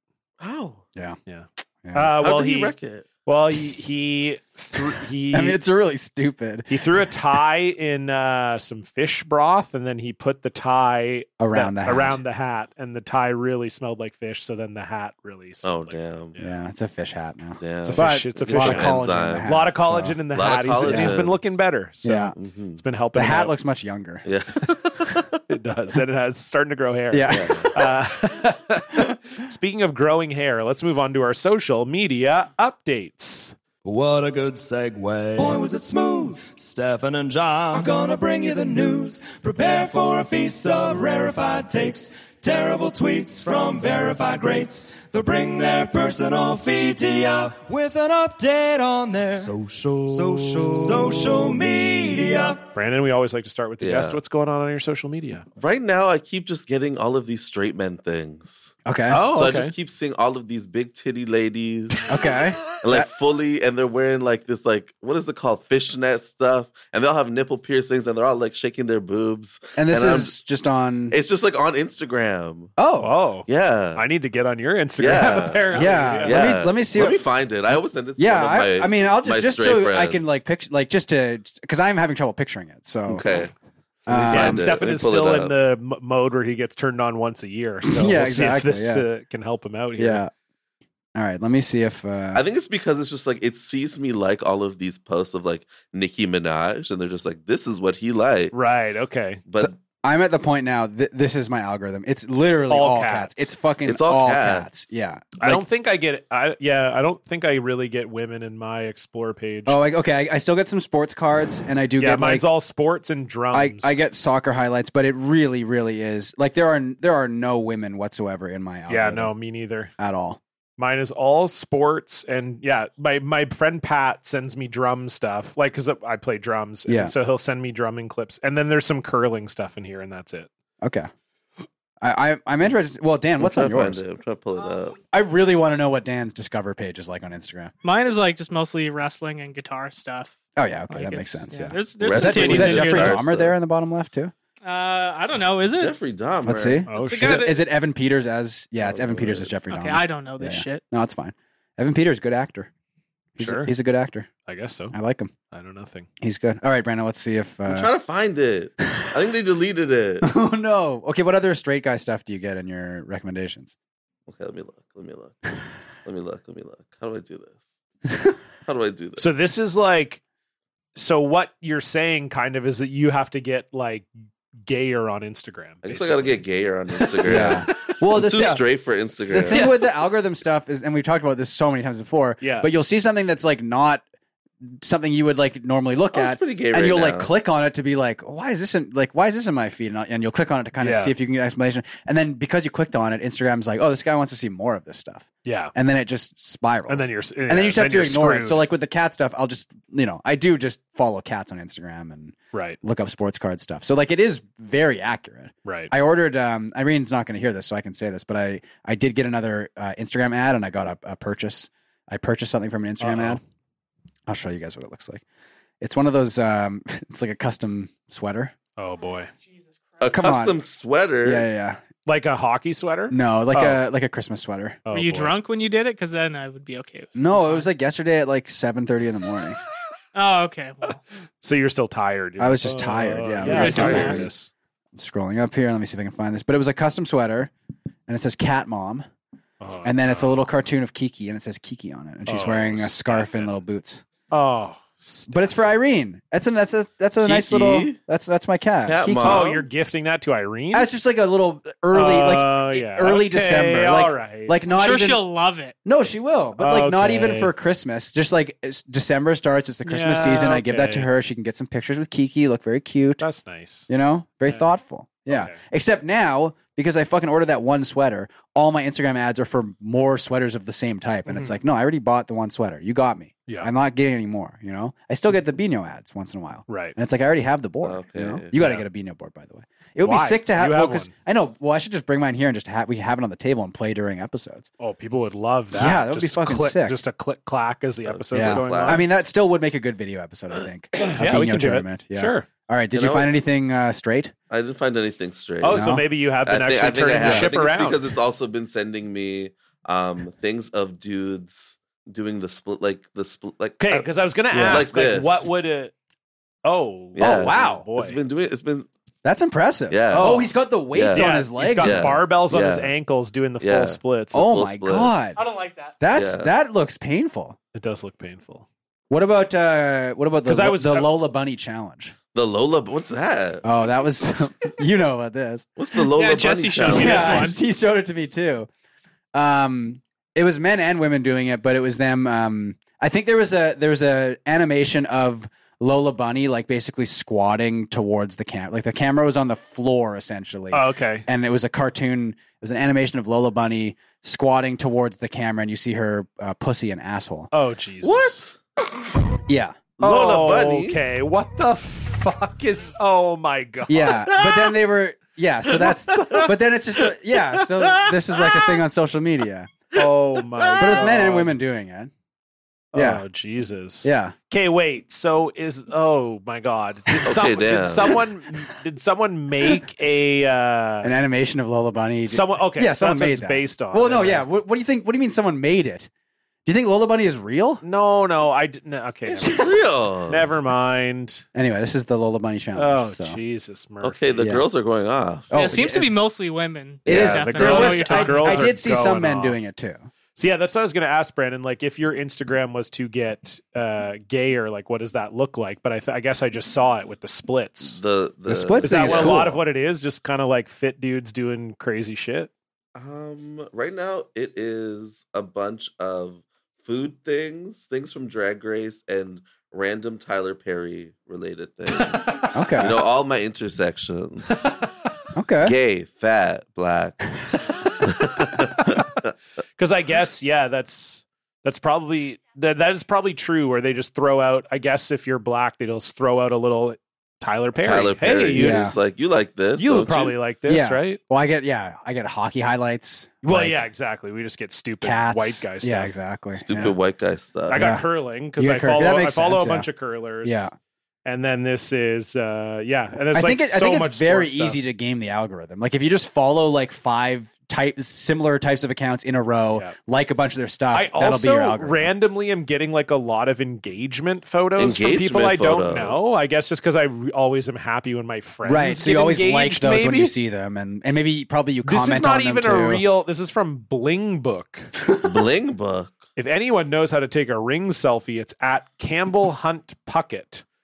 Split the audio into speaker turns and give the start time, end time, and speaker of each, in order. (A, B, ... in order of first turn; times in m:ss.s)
0:00.4-0:00.8 A
0:01.3-0:02.7 B
0:01.8-0:02.1 C
0:02.2-0:03.1 A
0:03.3-0:05.6 B
0:05.3-0:07.1 C
0:06.7-0:16.6 B
0:11.4-0:12.2 C
0:15.6-0:16.3 A
0:16.4-0:20.2 C
0:17.6-0:19.7 A
0:17.8-0:23.6 B
0:20.3-0:21.4 A
0:20.9-0:21.2 C
0:22.0-0:22.4 C
0:22.4-0:22.8 A
0:23.2-0:24.3 C
0:24.2-0:25.4 A
0:25.5-0:33.6 B
0:27.1-0:27.9 C
0:27.3-0:27.7 A
0:33.8-0:52.6 D
0:52.8-0:55.4 B
0:53.8-0:54.2 A
0:55.6-0:58.8 A
0:58.9-0:59.3 C
0:59.1-0:59.7 B
0:59.3-1:02.1 A
1:02.1-1:03.1 C
1:02.7-1:10.4 A
1:09.8-1:11.2 C
1:11.1-1:12.7 A
1:12.8-1:13.1 C
1:13.0-1:16.4 B
1:13.5-1:14.0 A
1:15.0-1:20.2 A
1:15.7-1:17.2 C
1:18.2-1:23.4 C
1:23.1-1:23.5 A
1:24.1-1:24.7 C
1:24.1-1:25.6 A
1:24.3-1:30.3 B
1:27.8-1:29.0 C
1:30.0-1:30.3 C
1:31.2-1:32.4 C
1:32.3-1:38.6 A
1:38.5-1:39.4 B
1:39.5-1:39.7 A
1:39.6-1:45.6 C
1:42.7-1:43.5 B
1:43.8-1:44.8 A
1:45.4-1:49.8 B
1:49.7-1:52.5 C
1:52.0-1:54.0 B
1:53.5-1:59.3 C
1:58.9-1:59.9 B
2:00.0-2:00.4 C
2:00.8-2:10.5 B
2:06.9-2:07.2 C
2:10.8-2:11.1 C
2:12.0-2:14.0 C
2:13.4-2:15.0 A
2:15.1-2:17.7 C
2:17.8-2:20.4 E
2:20.6-2:24.3 C
2:20.9-2:23.2 E
2:22.0-2:23.6 A
2:24.6-2:26.0 E
2:25.7-2:26.9 A
2:26.4-2:32.7 C
2:26.9-2:27.5 B
2:27.0-2:27.6 E
2:28.8-2:29.5 A
2:29.7-2:30.8 E
2:33.4-2:34.3 C
2:33.4-2:33.7 B
2:34.5-2:35.0 B
2:34.9-2:35.3 C
2:35.5-2:36.1 B
2:36.2-2:37.9 C
2:37.7-2:40.3 A
2:38.8-2:39.2 C
2:40.2-2:43.7 C
2:44.3-2:45.5 A
2:46.0-2:47.6 A
2:48.7-2:49.3 A
2:49.2-2:50.2 B
2:51.0-2:54.1 B
2:54.7-2:56.4 B
2:55.8-2:59.7 A
2:57.0-2:57.7 B
2:57.2-2:58.6 C
2:59.3-3:04.0 C
2:59.5-2:59.8 B
3:02.4-3:02.7 B
3:04.6-3:33.4 C
3:06.1-3:07.3 A
3:10.8-3:11.2 B
3:15.4-3:15.7 B
3:16.9-3:18.6 B
3:22.5-3:22.8 B
3:25.6-3:25.9 B
3:33.0-3:33.4 B
3:34.3-3:35.2 C
3:35.8-3:38.5 C
3:38.8-3:39.3 B
3:40.0-3:41.5 A
3:40.1-3:40.6 C
3:41.2-3:41.8 C
3:42.1-3:43.8 B
3:43.1-3:44.8 C
3:44.9-3:45.4 B
3:44.9-3:47.7 E
3:47.2-3:49.6 C
3:50.1-3:51.0 E
3:51.4-3:54.5 B
3:52.4-3:54.3 C
3:53.5-3:54.2 A
3:53.5-3:54.2 E
3:55.0-3:57.5 C
3:58.1-3:59.1 C
3:59.6-4:00.4 B
3:59.8-4:04.0 C
4:02.3-4:03.5 B
4:04.3-4:05.6 B
4:05.3-4:09.5 C
4:07.2-4:08.0 A
4:08.8-4:09.7 A
4:09.2-4:10.9 B
4:10.7-4:15.2 C
4:11.9-4:14.6 B
4:14.7-4:15.7 E
4:15.8-4:23.2 C
4:16.6-4:17.5 B
4:19.8-4:21.1 B
4:23.2-4:23.9 B
4:23.9-4:44.7 C
4:25.3-4:25.6 B
4:31.3-4:31.6 B
4:36.7-4:37.0 B
4:37.8-4:38.6 A
4:38.6-4:38.8 B
4:40.0-4:41.1 B
4:44.8-4:49.0 B
4:45.7-4:47.0 C
4:48.1-4:49.1 A
4:48.3-4:54.3 C
4:50.9-4:52.5 B
4:52.9-4:53.3 A
4:54.5-5:04.1 A
4:55.6-4:58.1 B
4:55.7-4:56.0 C
4:57.2-4:57.6 C
5:03.8-5:05.9 B
5:04.5-5:04.9 C
5:04.6-5:05.5 A
5:06.6-5:08.2 B
5:07.2-5:08.9 A
5:07.2-5:07.8 C
5:09.2-5:12.1 C
5:09.9-5:12.9 A
5:10.1-5:10.5 B
5:11.1-5:14.4 B
5:13.6-5:15.2 A
5:14.3-5:15.4 C
5:15.4-5:16.0 E
5:16.0-5:17.6 C
5:16.1-5:16.5 A
5:17.7-5:18.7 B
5:19.1-5:22.2 C
5:20.4-5:21.2 B
5:22.3-5:23.6 A
5:23.6-5:25.8 C
5:25.8-5:27.5 A
5:26.2-5:27.6 B
5:26.8-5:28.7 C
5:29.3-5:47.5 C
5:40.7-5:41.3 B
5:47.5-5:48.4 B
5:48.0-5:49.0 A
5:49.5-5:49.8 C
5:50.0-5:51.0 A
5:50.0-5:54.3 B
5:53.9-5:59.7 C
5:56.2-5:56.4 A
6:00.0-6:01.6 B
6:00.6-6:01.1 A
6:00.8-6:02.1 C
6:02.9-6:11.1 B
6:02.9-6:03.2 C
6:04.0-6:04.4 C
6:07.2-6:08.2 A
6:11.0-6:16.1 C
6:12.3-6:14.5 B
6:16.7-6:17.8 C
6:17.8-6:19.7 B
6:19.3-6:20.5 A
6:20.3-6:21.4 B
6:21.5-6:23.4 C
6:22.8-6:24.3 B
6:24.0-6:26.1 A
6:24.4-6:24.7 C
6:25.5-6:26.1 C
6:25.6-6:28.7 E
6:27.1-6:27.8 A
6:27.1-6:30.0 C
6:27.1-6:29.6 B
6:30.4-6:38.0 B
6:37.8-6:39.5 A
6:38.5-6:39.5 C
6:38.8-6:42.5 B
6:43.0-6:54.8 A
6:52.5-6:53.0 C
6:55.4-6:55.8 C
6:55.6-6:57.3 A
6:58.0-6:59.3 A
6:59.8-7:08.9 B
7:07.8-7:10.4 A
7:08.5-7:09.0 C
7:09.8-7:11.2 B
7:10.7-7:13.9 C
7:13.4-7:16.2 B
7:15.0-7:17.0 C
7:16.6-7:18.0 A
7:17.7-7:20.7 B
7:17.7-7:18.0 C
7:18.6-7:19.9 C
7:20.4-7:20.7 C
7:21.2-7:24.8 B
7:23.3-7:32.1 C
7:30.9-7:40.3 B
7:34.8-7:36.2 A
7:38.6-7:43.0 C
7:41.8-7:44.9 B
7:45.2-7:46.2 A
7:46.4-7:50.6 B